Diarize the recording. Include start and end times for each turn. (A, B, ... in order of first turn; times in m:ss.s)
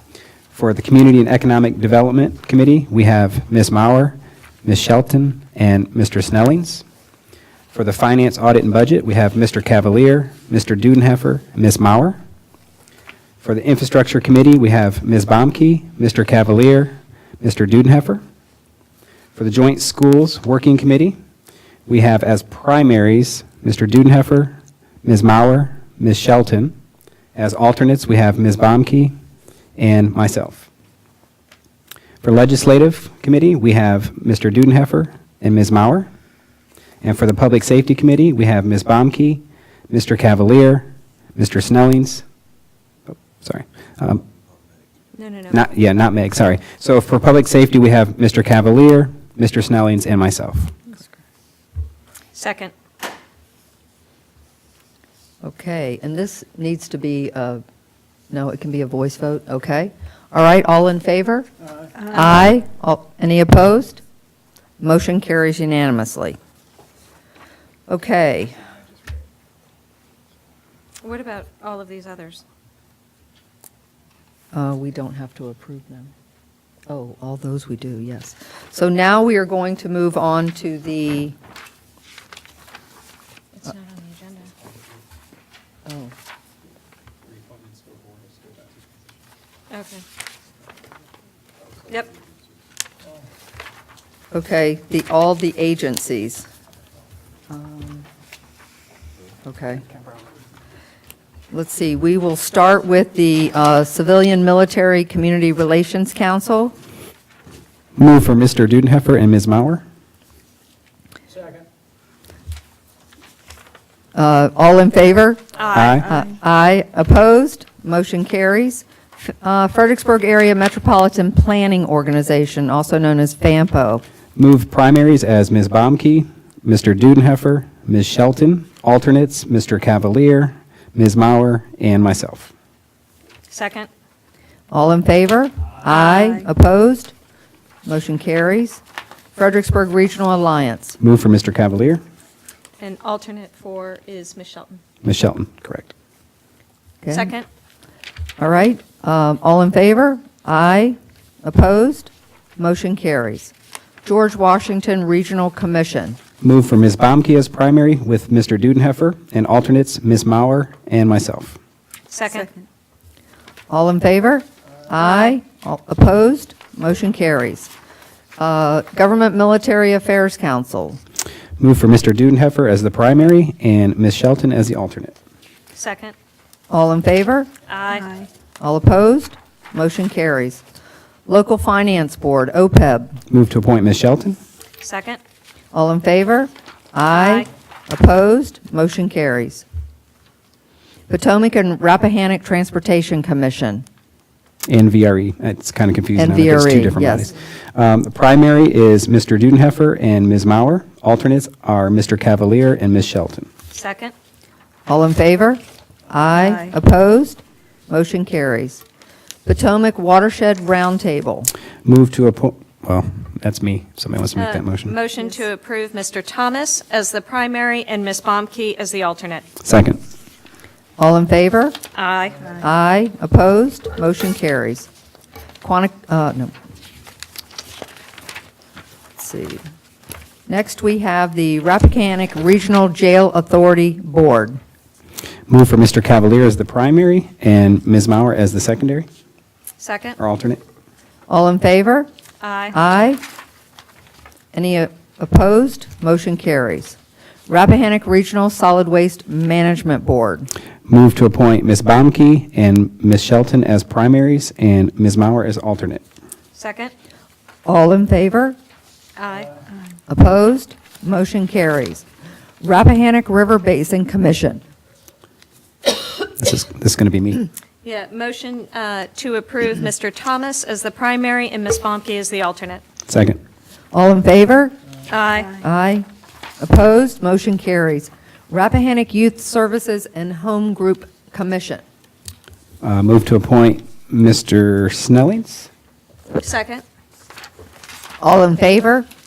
0:00.5-0:06.8 A
0:07.7-0:12.2 A
0:13.4-0:18.2 A
0:19.4-0:21.2 A
0:21.9-0:26.7 A
0:27.4-0:29.1 A
0:29.8-0:30.7 A
0:32.2-0:36.1 A
0:37.0-0:42.2 A
0:43.1-0:44.2 A
0:45.2-0:45.6 B
0:45.5-0:50.8 A
0:52.3-0:52.7 B
0:55.4-0:57.6 C
0:58.3-1:01.5 C
1:02.0-1:04.0 C
1:04.8-1:06.4 C
1:07.9-1:08.5 C
1:11.0-1:12.4 B
1:14.5-1:16.1 C
1:16.9-1:21.4 C
1:23.6-1:24.5 B
1:25.9-1:26.1 C
1:29.7-1:30.0 B
1:34.3-1:36.5 C
1:37.5-1:38.1 C
1:39.4-1:39.9 C
1:41.5-1:46.7 C
1:48.0-1:49.8 A
1:54.1-1:55.4 C
1:55.6-1:56.1 B
1:55.7-1:56.1 A
1:56.0-2:04.0 C
2:04.4-2:12.5 A
2:13.5-2:13.9 B
2:14.7-2:17.1 C
2:17.8-2:18.8 C
2:19.4-2:21.0 C
2:21.0-2:22.0 A
2:22.8-2:24.8 B
2:25.0-2:25.9 A
2:27.0-2:27.3 C
2:27.1-2:27.5 B
2:28.4-2:33.5 C
2:34.0-2:36.2 C
2:36.4-2:41.6 A
2:42.1-2:42.5 B
2:43.7-2:47.7 C
2:48.4-2:51.0 C
2:51.6-2:55.2 A
2:55.7-2:56.2 B
2:56.7-2:57.5 C
2:57.7-2:58.2 B
2:58.6-3:00.6 C
3:01.3-3:03.2 C
3:03.3-3:04.4 A
3:04.8-3:05.2 B
3:05.7-3:09.6 C
3:07.1-3:07.5 B
3:11.1-3:13.8 C
3:14.7-3:23.5 A
3:16.2-3:17.3 C
3:23.7-3:24.1 B
3:24.9-3:28.8 C
3:26.4-3:26.7 B
3:29.4-3:31.5 C
3:31.8-3:34.9 A
3:34.4-3:39.5 B
3:39.6-3:40.0 A
3:41.0-3:41.8 C
3:41.9-3:42.6 B
3:42.6-3:44.9 C
3:45.6-3:46.5 C
3:49.2-3:49.6 C
3:50.5-3:54.6 C
3:55.5-3:59.1 A
3:59.8-4:00.2 B
4:00.2-4:00.6 A
4:01.3-4:02.1 C
4:02.4-4:02.8 B
4:02.7-4:03.2 C
4:04.5-4:07.0 C
4:07.5-4:10.5 C
4:10.9-4:16.0 A
4:16.6-4:16.9 B
4:17.7-4:18.6 C
4:19.2-4:19.6 B
4:20.1-4:22.0 C
4:22.6-4:24.6 C
4:26.4-4:27.5 A
4:27.8-4:32.8 B
4:33.1-4:33.4 A
4:33.9-4:34.8 C
4:35.1-4:35.6 B
4:35.6-4:36.1 C
4:36.6-4:41.8 C
4:42.8-4:45.7 A
4:46.4-4:46.8 B
4:48.2-4:49.1 C